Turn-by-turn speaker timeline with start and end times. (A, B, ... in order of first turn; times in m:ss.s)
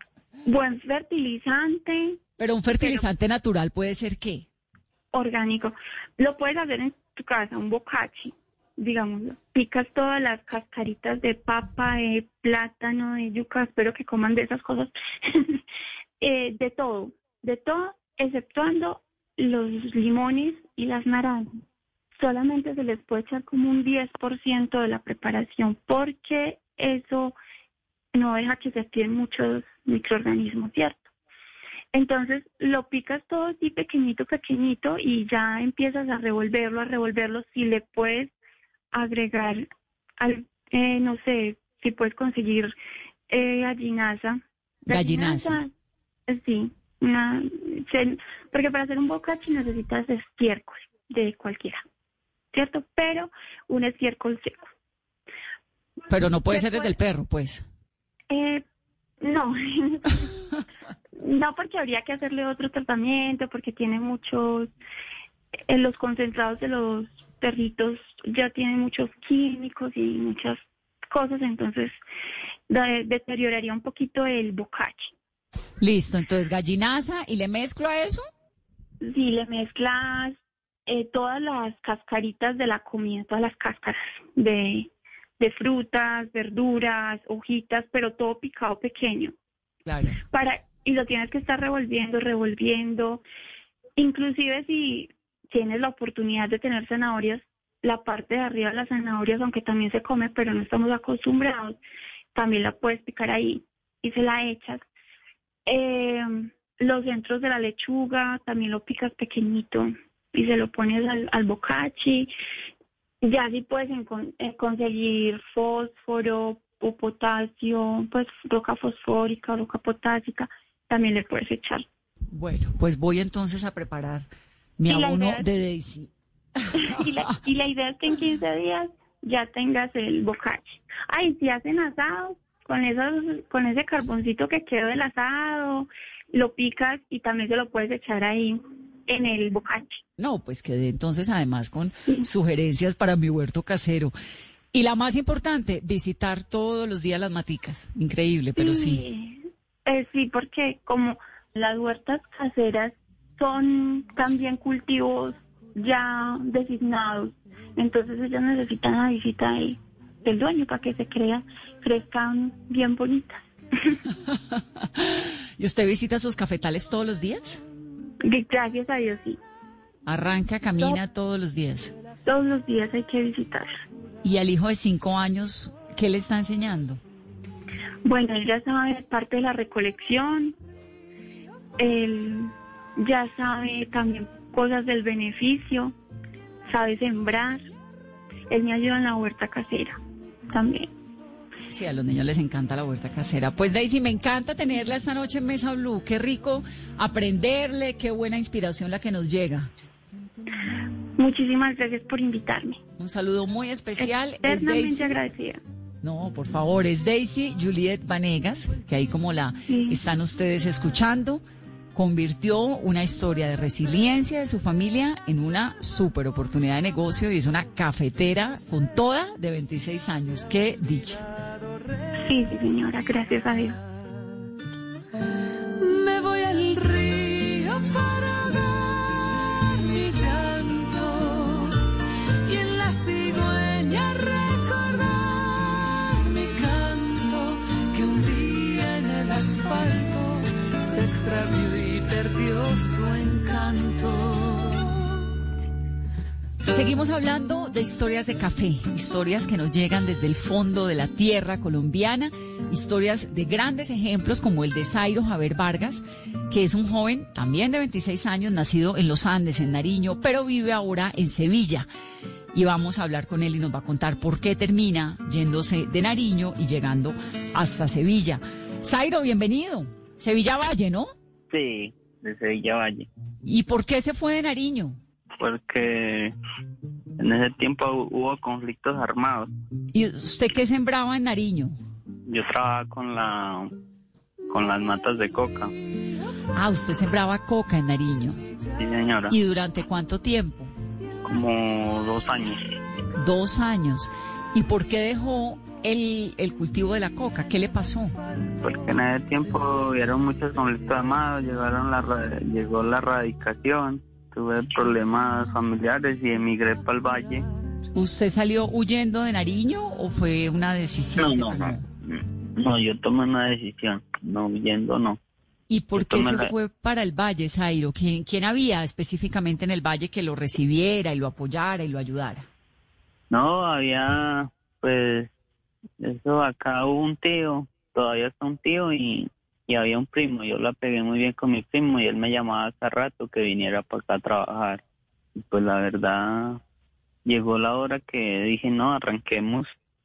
0:00.4-0:02.2 A
0:02.4-0:04.4 B
0:05.1-0:15.6 A
0:16.2-0:21.6 A
0:22.2-0:27.4 A
0:28.1-0:31.0 A
0:31.9-0:38.3 A
0:38.9-0:39.7 A
0:40.2-0:42.7 A
0:43.3-0:45.7 A
0:44.8-0:45.6 B
0:46.3-0:51.8 A
0:52.5-0:54.6 A
0:56.1-0:57.6 B
0:56.5-0:56.9 A
0:58.3-0:58.6 A
0:59.2-1:00.4 A
1:01.2-1:04.7 A
1:05.7-1:12.0 A
1:12.7-1:15.1 A
1:15.8-1:18.2 B
1:19.0-1:29.3 A
1:29.8-1:30.2 B
1:30.3-1:33.2 A
1:34.0-1:41.8 A
1:42.3-1:44.8 A
1:45.6-1:52.3 A
1:53.2-2:01.8 A
2:02.3-2:04.3 B
2:04.8-2:07.3 B
2:04.9-2:05.4 A
2:06.7-2:20.0 A
2:20.2-2:24.1 B
2:24.7-2:29.0 B
2:28.6-2:44.0 A
2:44.2-2:47.6 B
2:48.2-2:49.4 A
2:50.0-2:51.9 B
2:52.2-2:53.8 A
2:54.2-2:57.0 B
2:58.0-3:00.6 A
3:01.8-3:05.9 A
3:06.6-3:07.6 A
3:08.5-3:10.0 A
3:10.5-3:10.9 A
3:11.7-3:19.7 B
3:21.2-3:22.8 A
3:23.0-3:25.2 B
3:24.0-3:25.6 A
3:26.0-3:31.4 B
3:29.7-3:30.0 A
3:31.9-3:41.2 B
3:42.2-3:43.8 A
3:45.8-3:51.8 C
3:52.4-4:05.0 C
4:06.7-4:21.9 B
4:22.5-4:31.1 B
4:31.5-4:33.1 D
4:33.4-4:35.0 B
4:35.4-4:36.3 D
4:37.2-4:39.5 D
4:39.9-4:41.7 B
4:42.3-4:43.7 D
4:44.5-4:45.7 D
4:46.5-4:48.4 B
4:48.8-4:49.3 D
4:49.3-4:50.7 B
4:51.2-4:52.6 D
4:53.1-4:58.2 B
4:58.6-5:07.5 D
5:07.9-5:11.8 B
5:11.2-5:15.2 D
5:15.7-5:22.5 B
5:16.0-5:16.5 D
5:23.3-5:25.3 D
5:26.0-5:34.8 D
5:35.4-5:36.6 D
5:37.2-5:39.8 D